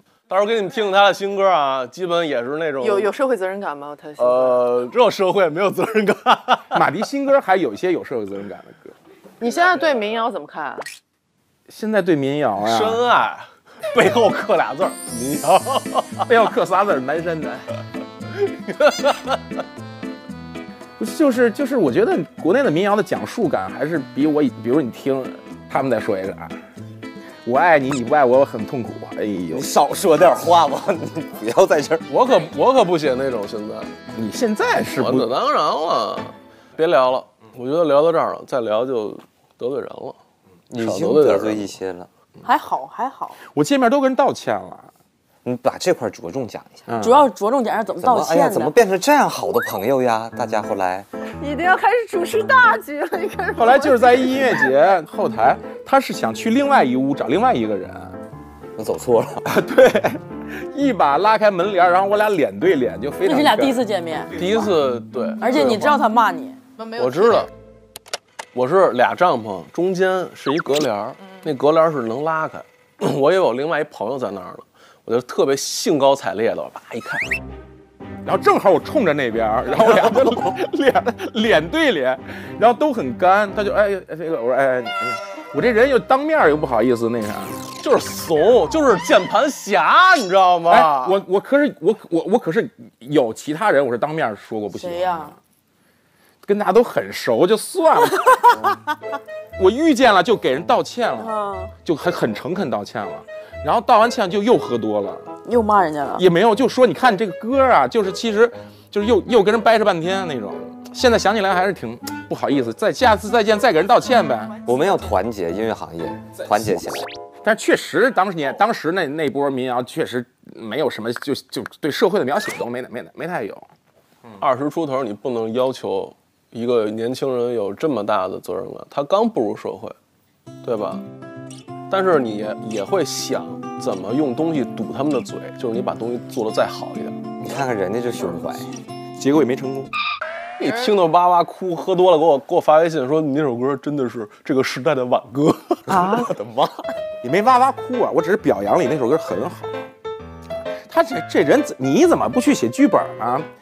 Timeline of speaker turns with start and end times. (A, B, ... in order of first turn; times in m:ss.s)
0:00.3-0:03.1 A
0:02.8-0:04.6 B
0:04.2-0:06.7 A
0:06.7-0:08.9 C
0:09.4-0:10.9 B
0:11.7-0:13.1 C
0:12.6-0:16.3 A
0:16.2-0:17.6 C
0:18.8-0:19.3 A
0:21.0-0:26.5 C
0:27.4-0:29.7 C
0:29.5-0:32.0 D
0:32.1-0:33.9 A
0:34.1-0:35.3 C
0:34.8-0:40.2 A
0:40.7-0:42.1 D
0:40.8-0:41.8 A
0:42.4-0:43.4 E
0:43.5-0:44.9 C
0:45.4-0:46.8 D
0:46.9-0:47.2 C
0:47.0-0:48.7 E
0:48.0-0:51.1 D
0:51.4-0:54.7 B
0:53.5-0:58.1 C
0:58.8-0:59.4 D
0:59.4-1:03.8 C
1:03.2-1:04.3 E
1:04.3-1:06.0 A
1:04.4-1:04.7 C
1:05.4-1:06.6 E
1:06.8-1:07.4 B
1:07.0-1:07.5 A
1:08.5-1:17.3 A
1:11.2-1:11.5 B
1:18.2-1:27.6 C
1:19.7-1:20.5 A
1:27.8-1:31.2 A
1:30.7-1:35.4 C
1:34.7-1:35.3 E
1:36.4-1:38.4 C
1:39.6-1:45.3 C
1:41.2-1:41.7 E
1:45.4-1:46.2 E
1:46.2-1:54.6 C
1:54.6-1:57.1 D
1:57.4-2:03.7 C
2:04.4-2:09.9 A
2:10.6-2:11.0 A
2:11.9-2:17.2 A
2:17.4-2:18.7 D
2:19.2-2:19.9 C
2:20.6-2:26.7 A
2:27.2-2:29.9 C
2:30.8-2:33.5 C